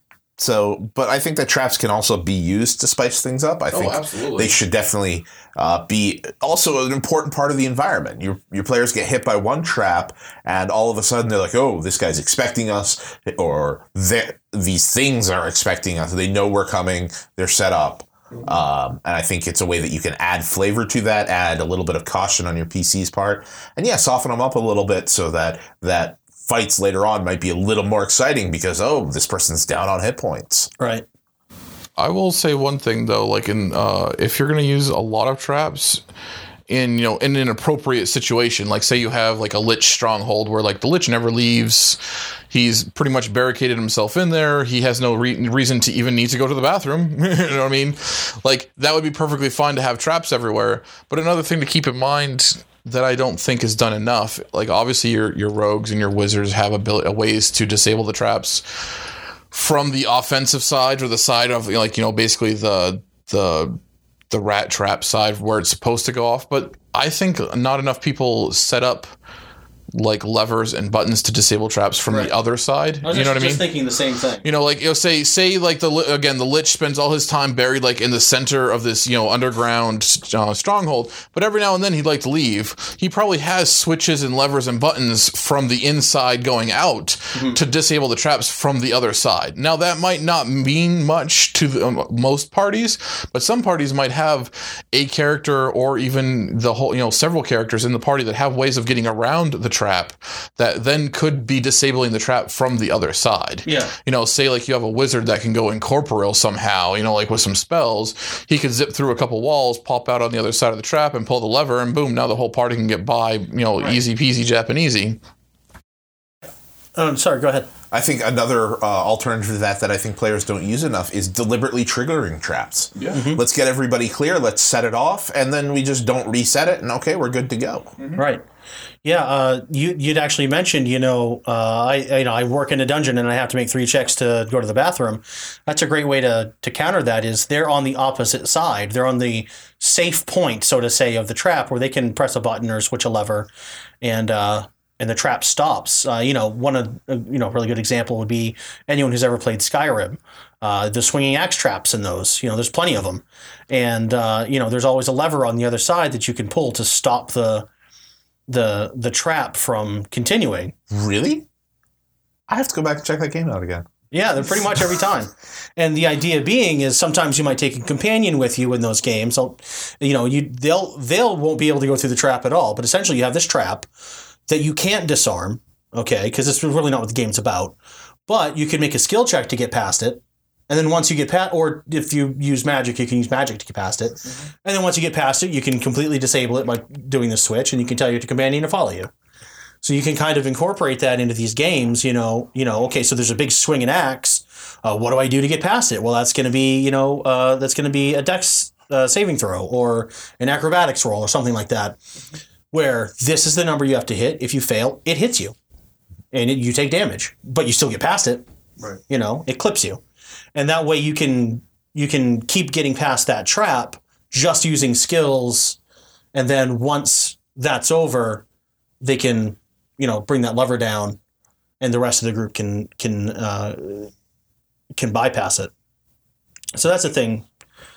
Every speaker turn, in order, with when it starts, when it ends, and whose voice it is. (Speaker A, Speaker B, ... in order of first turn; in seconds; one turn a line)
Speaker A: 0.4-30.7
Speaker B: 3.7-4.5
Speaker C: 30.8-31.1
Speaker B: 32.0-36.0
Speaker B: 36.7-58.8
Speaker B: 59.5-63.8
Speaker B: 64.3-69.1
Speaker B: 69.9-73.7
Speaker C: 73.0-74.4
Speaker B: 74.4-115.2
Speaker C: 103.7-103.9
Speaker C: 117.0-117.7
Speaker A: 117.9-127.9
Speaker B: 123.0-123.2
Speaker C: 123.1-123.4
Speaker C: 128.2-128.4
Speaker C: 129.0-143.5
Speaker C: 144.0-157.7
Speaker C: 158.5-160.8
Speaker A: 160.9-161.5
Speaker A: 162.5-163.9
Speaker C: 164.1-173.9
Speaker C: 174.5-177.8
Speaker C: 178.3-189.1
Speaker C: 189.8-202.0
Speaker C: 202.7-205.6
Speaker C: 206.3-210.0
Speaker C: 210.6-215.8
Speaker C: 216.3-218.4
Speaker C: 219.0-221.2
Speaker C: 221.8-224.1
Speaker C: 225.0-225.7
Speaker C: 226.8-227.5